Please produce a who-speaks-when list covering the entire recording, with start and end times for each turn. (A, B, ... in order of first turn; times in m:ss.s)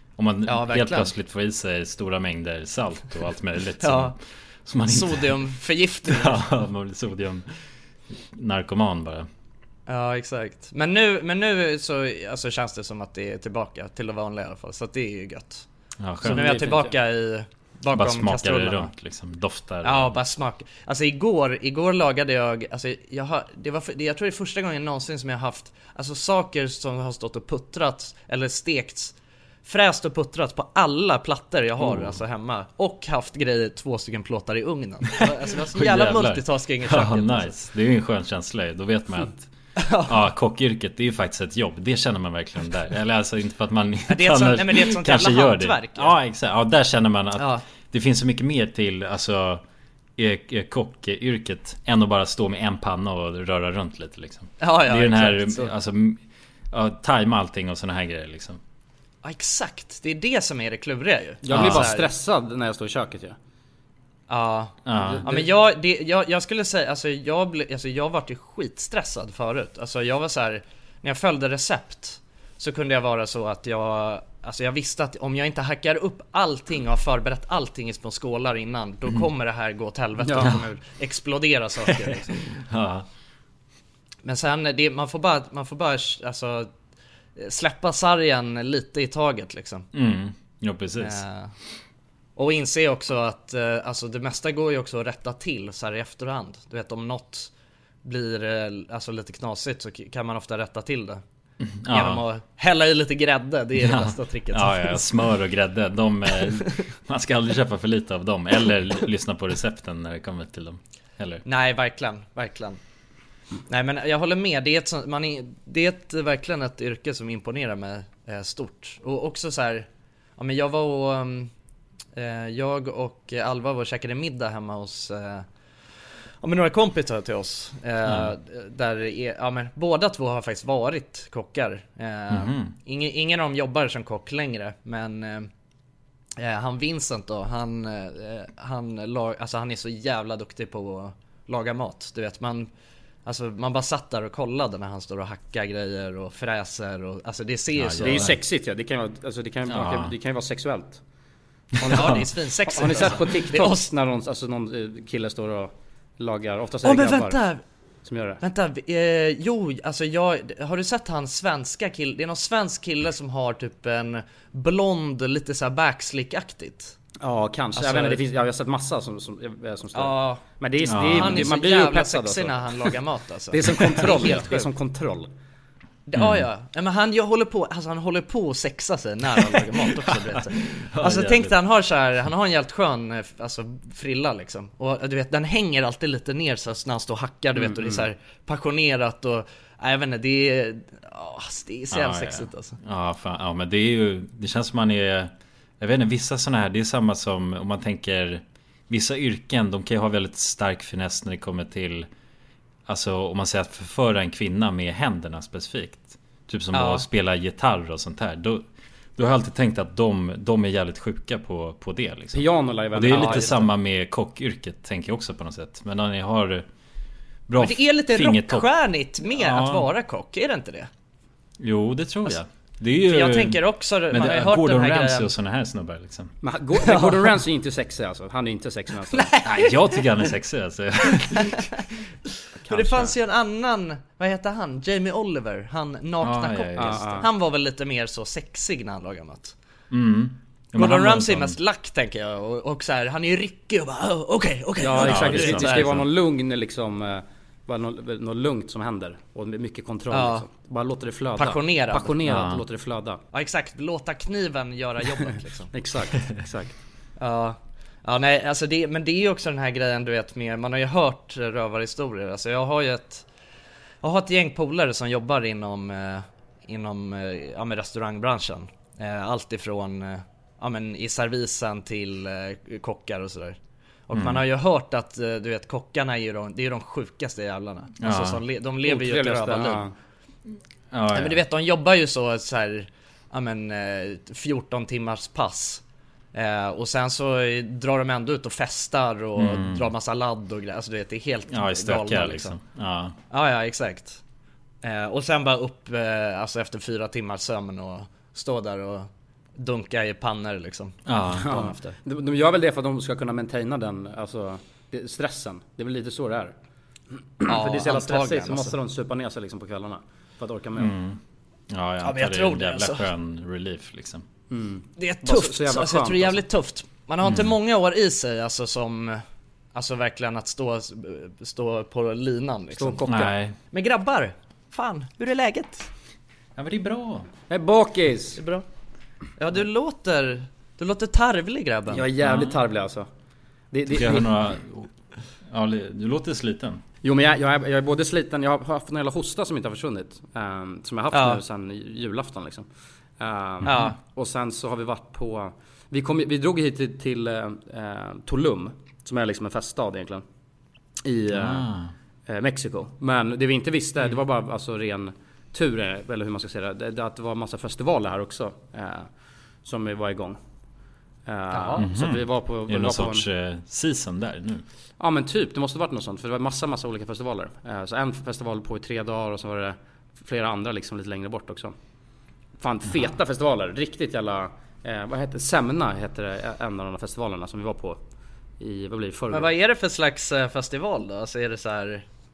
0:00.2-0:05.3 A
0:00.4-0:01.1 B
0:03.8-0:04.1 B
0:04.8-0:06.5 B
0:06.1-0:07.5 A
0:08.1-0:09.3 A
0:09.9-0:15.6 B
0:16.0-0:16.5 A
0:16.2-0:18.9 B
0:16.2-0:16.9 C
0:17.9-0:20.1 A
0:19.8-0:37.5 B
0:31.8-0:32.2 A
0:35.2-0:49.6 A
0:39.8-0:40.2 B
0:44.1-0:46.1 B
0:47.4-0:47.6 B
0:50.2-0:58.6 A
0:54.6-0:55.7 B
0:59.2-1:02.1 B
1:01.4-1:03.4 C
1:01.5-1:02.0 A
1:04.3-1:22.5 B
1:04.8-1:05.2 A
1:05.0-1:05.5 C
1:20.2-1:20.6 C
1:22.5-1:23.0 A
1:24.2-1:26.7 B
1:27.4-1:29.9 B
1:29.9-1:31.2 A
1:31.0-1:31.5 B
1:32.4-1:37.5 B
1:38.0-1:41.2 B
1:41.6-1:42.2 A
1:41.9-1:45.1 B
1:43.8-1:51.4 A
1:51.4-1:52.8 B
1:53.7-2:01.5 B
2:02.1-2:05.5 B
2:06.4-2:15.5 B
2:08.0-2:08.3 A
2:12.3-2:12.7 A
2:16.4-2:22.7 B
2:23.2-2:28.3 B
2:27.7-2:28.4 A
2:28.0-2:31.0 C
2:29.7-2:30.1 A
2:31.8-2:37.4 C
2:31.8-2:32.2 A
2:31.9-2:33.9 B
2:36.8-2:37.6 B
2:38.0-2:38.4 C
2:38.4-2:47.0 B
2:47.2-2:52.9 C
2:47.7-2:48.2 B
2:49.9-2:50.4 B
2:50.8-2:51.5 A
2:51.1-2:54.7 B
2:53.5-2:55.3 C
2:56.1-3:12.8 B
2:56.2-2:56.4 A
3:00.0-3:01.5 A
3:07.6-3:08.0 A
3:11.9-3:22.1 A
3:22.9-3:28.6 A
3:26.7-3:27.0 B
3:29.2-3:36.6 A
3:32.3-3:33.7 C
3:33.1-3:33.5 B
3:37.5-3:38.7 A
3:37.6-3:40.9 B
3:39.3-3:39.9 A
3:41.6-3:46.3 A
3:43.0-3:45.3 B
3:46.4-3:49.3 C
3:46.8-3:47.3 B
3:49.1-3:50.0 B
3:49.4-3:51.7 A
3:51.3-3:51.8 B
3:52.6-3:53.1 C
3:52.7-3:59.5 B
3:56.2-3:57.2 A
3:56.8-3:57.2 C
3:59.9-4:01.6 A
4:00.8-4:06.0 B
4:04.8-4:13.2 C
4:04.9-4:06.0 A
4:10.1-4:10.4 B
4:11.4-4:12.2 B
4:12.2-4:12.6 A
4:13.3-4:15.7 B
4:15.7-4:16.8 C
4:17.2-4:23.2 B
4:24.0-4:33.6 B
4:34.1-4:39.8 B
4:34.1-4:34.4 A
4:38.0-4:38.4 A
4:38.8-4:39.9 C
4:40.9-4:41.4 A
4:41.1-4:45.8 B
4:46.3-4:52.6 B
4:49.4-4:49.9 A
4:51.5-4:53.1 A
4:53.3-4:54.2 B
4:54.8-5:01.0 B
5:01.0-5:01.7 A
5:01.3-5:06.5 C
5:07.4-5:10.9 C
5:07.5-5:08.8 B
5:10.8-5:14.2 A
5:12.0-5:13.1 B
5:14.5-5:16.4 C
5:15.0-5:19.2 B
5:17.2-5:17.5 A
5:19.7-5:23.1 B
5:22.7-5:23.3 C
5:23.1-5:23.6 A
5:23.7-5:25.9 B
5:26.6-5:27.3 A
5:27.5-5:28.4 C
5:28.4-5:28.6 B
5:29.4-5:32.1 B
5:31.9-5:33.1 C
5:32.2-5:32.6 A
5:33.7-5:34.3 C
5:33.9-5:34.9 A
5:35.5-5:36.8 A
5:37.0-5:42.6 C
5:41.1-5:41.4 B
5:43.2-5:50.2 C
5:43.6-5:43.9 A
5:43.6-5:44.0 B
5:51.0-5:51.7 C
5:51.3-5:51.9 A
5:52.3-5:59.1 C
5:59.6-6:00.4 C
6:01.2-6:03.2 C
6:01.8-6:04.6 A
6:05.0-6:11.7 C
6:12.6-6:18.0 C
6:18.6-6:19.5 C
6:19.3-6:22.0 B